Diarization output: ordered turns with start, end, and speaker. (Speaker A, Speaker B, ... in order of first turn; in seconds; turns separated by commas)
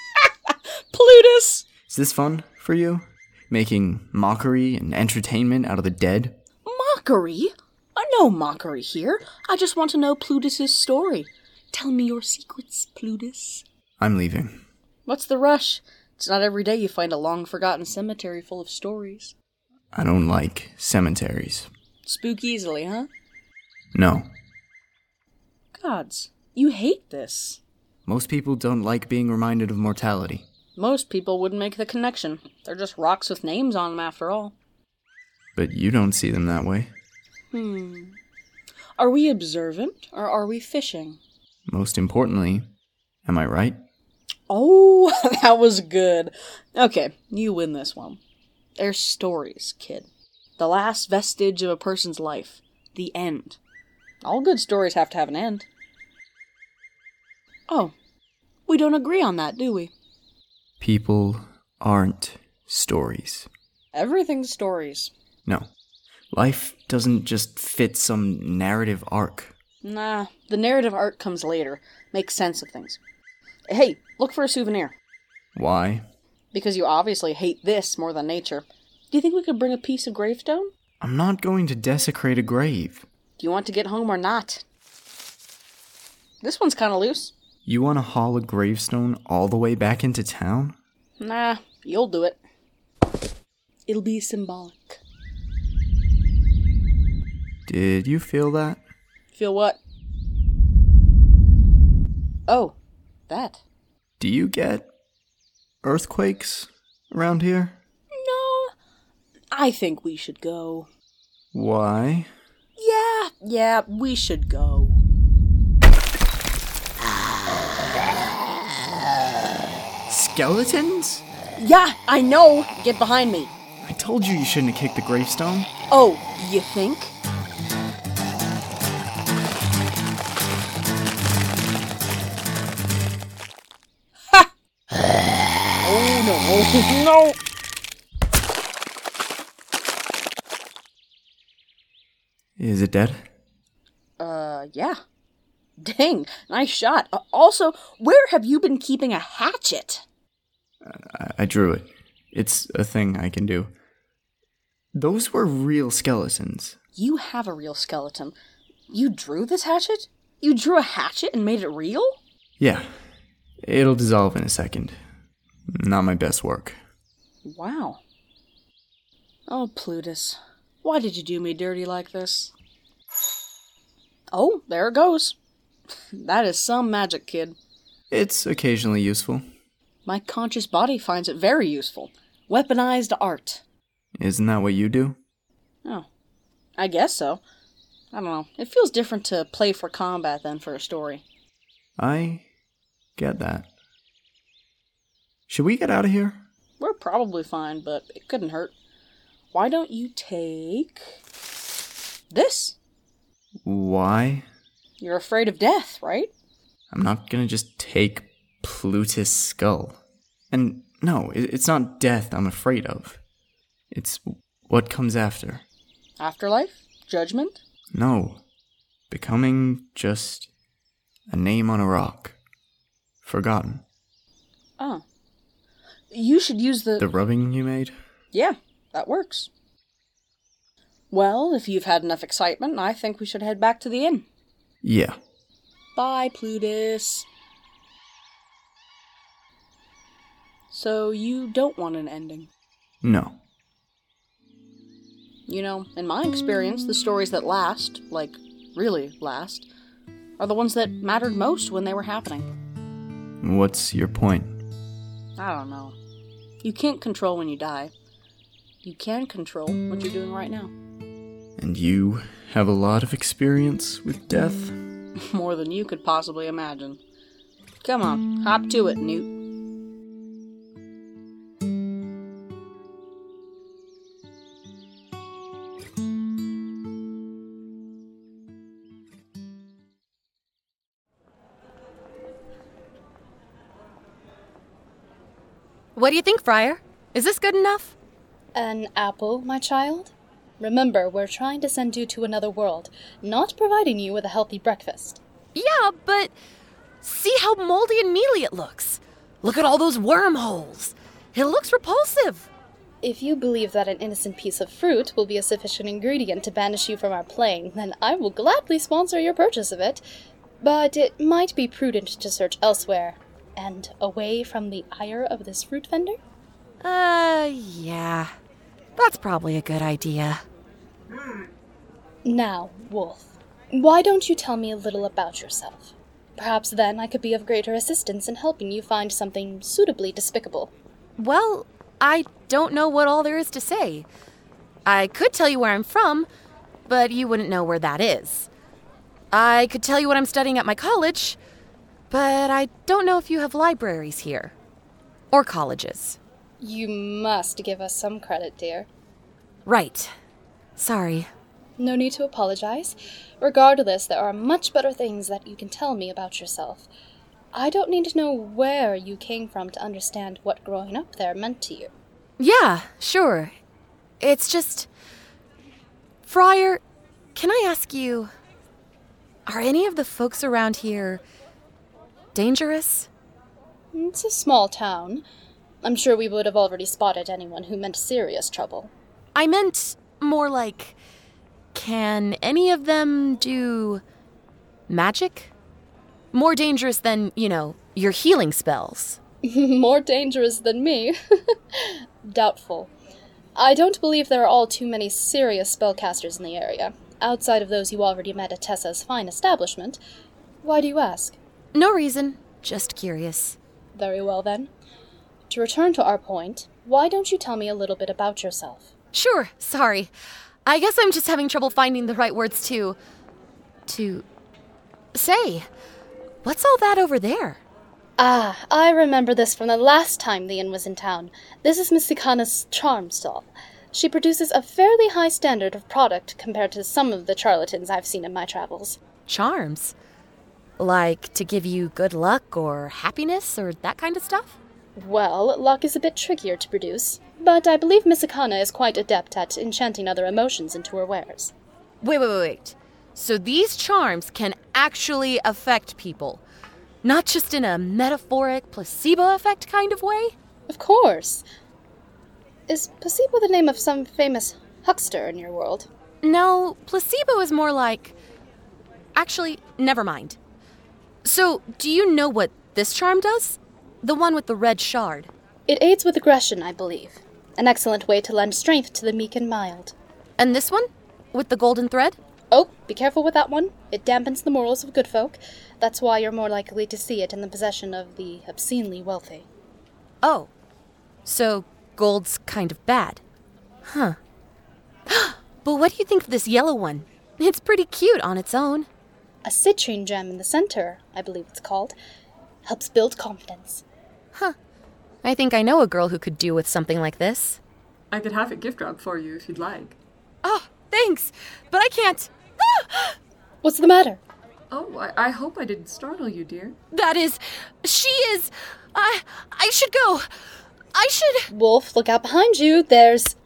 Speaker A: 0.2-1.7, Speaker B: 1.9-6.3, Speaker A: 6.6-13.6, Speaker B: 14.0-14.6, Speaker A: 15.1-19.3, Speaker B: 19.9-21.7, Speaker A: 22.1-23.1, Speaker B: 23.9-24.3, Speaker A: 25.7-27.6, Speaker B: 28.1-30.4, Speaker A: 30.8-34.5, Speaker B: 35.5-36.9, Speaker A: 37.5-38.1, Speaker A: 39.0-41.2, Speaker B: 41.7-42.7, Speaker B: 43.2-43.8, Speaker A: 44.5-48.2, Speaker A: 48.8-53.6, Speaker A: 54.2-55.6, Speaker A: 57.7-57.9, Speaker A: 58.7-59.9, Speaker B: 60.8-63.5, Speaker A: 63.9-65.1, Speaker B: 66.3-69.5, Speaker A: 69.8-73.0, Speaker A: 73.7-74.9, Speaker B: 75.5-76.0, Speaker A: 76.5-80.7, Speaker B: 81.0-83.0, Speaker A: 83.4-84.6, Speaker A: 86.4-87.3, Speaker B: 87.6-90.8, Speaker A: 91.2-92.4, Speaker A: 93.9-95.0, Speaker B: 97.7-98.8, Speaker A: 99.3-99.8, Speaker A: 102.5-102.7, Speaker A: 103.3-103.6, Speaker B: 104.2-104.9, Speaker B: 105.8-107.8, Speaker A: 108.1-108.7, Speaker A: 109.5-110.9, Speaker B: 111.5-112.3, Speaker A: 112.8-115.0, Speaker B: 120.1-121.2, Speaker A: 121.6-123.5, Speaker B: 123.8-125.7, Speaker A: 125.9-127.1, Speaker A: 135.8-137.4, Speaker B: 142.6-143.2, Speaker A: 144.2-145.0, Speaker A: 145.8-150.0, Speaker B: 150.8-153.7, Speaker B: 154.9-156.8, Speaker A: 156.9-158.3, Speaker A: 158.9-162.2, Speaker B: 162.6-162.9, Speaker B: 163.6-165.0, Speaker B: 165.7-166.8, Speaker A: 167.4-168.0, Speaker A: 169.5-172.5, Speaker A: 174.3-175.3, Speaker A: 176.1-177.6, Speaker B: 178.1-179.4, Speaker A: 180.1-183.6, Speaker B: 184.2-185.2, Speaker A: 186.8-187.4, Speaker A: 188.1-191.2, Speaker B: 192.0-192.4, Speaker B: 193.2-193.7, Speaker B: 195.5-196.4, Speaker A: 196.8-198.7, Speaker A: 199.5-201.1, Speaker A: 202.3-202.7, Speaker B: 203.6-204.4, Speaker A: 205.0-206.3, Speaker B: 206.9-210.0, Speaker B: 210.5-213.2, Speaker B: 213.9-215.6, Speaker A: 216.2-217.6, Speaker B: 217.9-218.4, Speaker B: 219.1-220.5, Speaker B: 221.3-222.3, Speaker B: 223.2-223.8, Speaker A: 226.1-227.0, Speaker B: 227.0-227.9, Speaker A: 228.3-229.5, Speaker A: 231.1-234.2, Speaker B: 234.8-235.2, Speaker A: 235.9-237.2, Speaker A: 240.7-242.5, Speaker B: 243.0-243.4, Speaker A: 245.5-249.7, Speaker A: 250.4-252.5, Speaker B: 253.4-254.6, Speaker A: 255.4-255.9, Speaker A: 256.6-257.9, Speaker A: 258.8-260.7, Speaker B: 261.6-264.8, Speaker A: 265.2-267.0, Speaker A: 267.8-269.3, Speaker C: 285.9-287.9, Speaker D: 288.5-295.2, Speaker C: 295.5-296.3, Speaker C: 297.0-302.5, Speaker D: 303.0-310.0, Speaker D: 310.6-316.2, Speaker C: 316.8-318.3, Speaker C: 318.9-320.4, Speaker D: 322.2-330.7, Speaker C: 331.2-334.1, Speaker C: 334.8-336.3, Speaker C: 336.9-338.5, Speaker C: 339.3-341.4, Speaker C: 342.1-344.5, Speaker C: 345.3-346.2, Speaker D: 346.6-348.9, Speaker C: 349.6-350.1, Speaker C: 350.8-351.3, Speaker D: 351.8-356.9, Speaker D: 357.5-361.9, Speaker C: 362.4-363.5, Speaker C: 364.2-364.9, Speaker C: 366.2-366.8, Speaker C: 367.3-368.3, Speaker C: 369.4-371.2, Speaker C: 372.3-373.1, Speaker D: 373.9-375.2, Speaker D: 375.8-378.9, Speaker C: 379.3-380.9, Speaker C: 381.7-384.0, Speaker C: 384.9-385.5, Speaker C: 386.3-389.2, Speaker D: 389.4-391.1, Speaker D: 391.8-392.9, Speaker D: 393.6-400.0, Speaker D: 400.6-401.4, Speaker C: 401.7-403.6, Speaker D: 403.9-404.7, Speaker D: 405.5-408.9, Speaker C: 409.1-410.1, Speaker C: 410.6-413.0, Speaker C: 413.9-414.2, Speaker C: 415.1-415.7, Speaker C: 416.4-417.6, Speaker D: 418.2-429.0, Speaker C: 429.2-429.9, Speaker C: 430.8-434.6, Speaker D: 434.9-441.5, Speaker C: 442.0-446.4, Speaker C: 447.0-450.3, Speaker D: 450.7-451.4, Speaker D: 452.7-455.9, Speaker C: 456.2-458.1, Speaker C: 459.1-460.4, Speaker C: 461.2-465.3, Speaker D: 465.7-469.9, Speaker C: 470.4-472.2, Speaker D: 472.5-479.4, Speaker C: 480.2-480.5, Speaker C: 481.2-483.2, Speaker C: 483.8-484.2, Speaker C: 485.1-488.9, Speaker D: 489.4-491.9, Speaker D: 492.6-493.8, Speaker C: 495.2-497.6, Speaker E: 498.1-499.9, Speaker C: 500.4-503.1, Speaker D: 503.6-504.2, Speaker E: 504.7-506.8, Speaker C: 506.9-510.3, Speaker C: 510.9-511.5, Speaker D: 511.5-513.3